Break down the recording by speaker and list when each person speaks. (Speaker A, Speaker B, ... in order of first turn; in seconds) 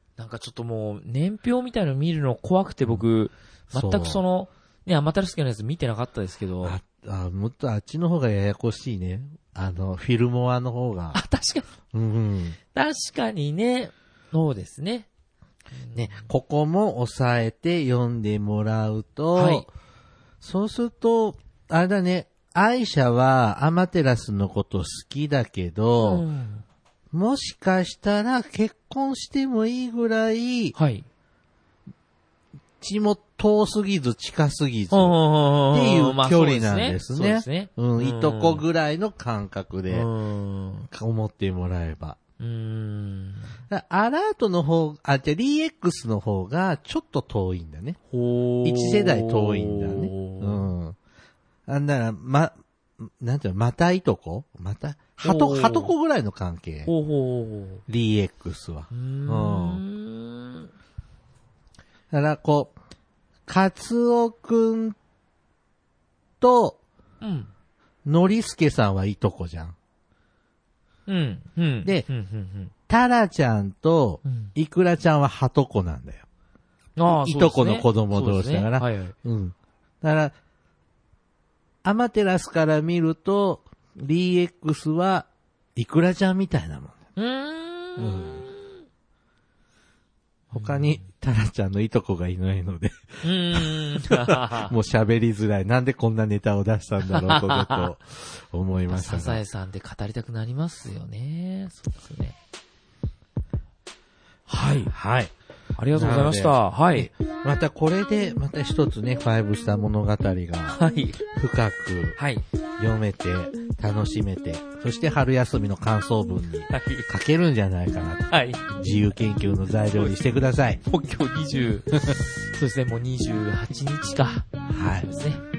Speaker A: 0.2-6.8, 11.1-11.7, 12.7-15.1, 15.8-16.3, 19.3-19.7, 26.0-26.6, 30.7-31.1, 34.9-38.6, 39.9-40.9, 42.4-43.6, 48.1-50.7, 55.2-55.9, 56.9-57.8, 58.9-60.7, 67.2-67.5, 71.1-72.7, 74.2-74.5, 77.0-79.1, 87.2-88.8, 90.5-91.0, 93.2-94.7, 97.1-97.9, 98.9-102.3, 104.5-104.9, 105.8-107.1, 110.7-111.2, 112.2-112.4, 116.7-117.1, 118.3-118.7, 120.8-124.5, 125.0-125.4
Speaker B: 3.7-4.2, 6.6-11.2, 11.9-12.6, 15.9-19.7, 20.4-26.2, 27.1-30.7, 32.8-35.1, 35.7-40.1, 40.9-42.2, 43.7-48.0, 48.6-51.0, 51.7-56.9, 57.9-59.8, 62.1-62.7, 63.5-65.0, 66.4-66.8, 68.0-69.7, 72.9-76.2, 77.1-80.3, 81.8-87.0, 88.0-88.4, 90.5-99.4, 104.8-105.3, 105.9-110.8, 111.3-112.2, 112.8-120.8, 124.7-125.1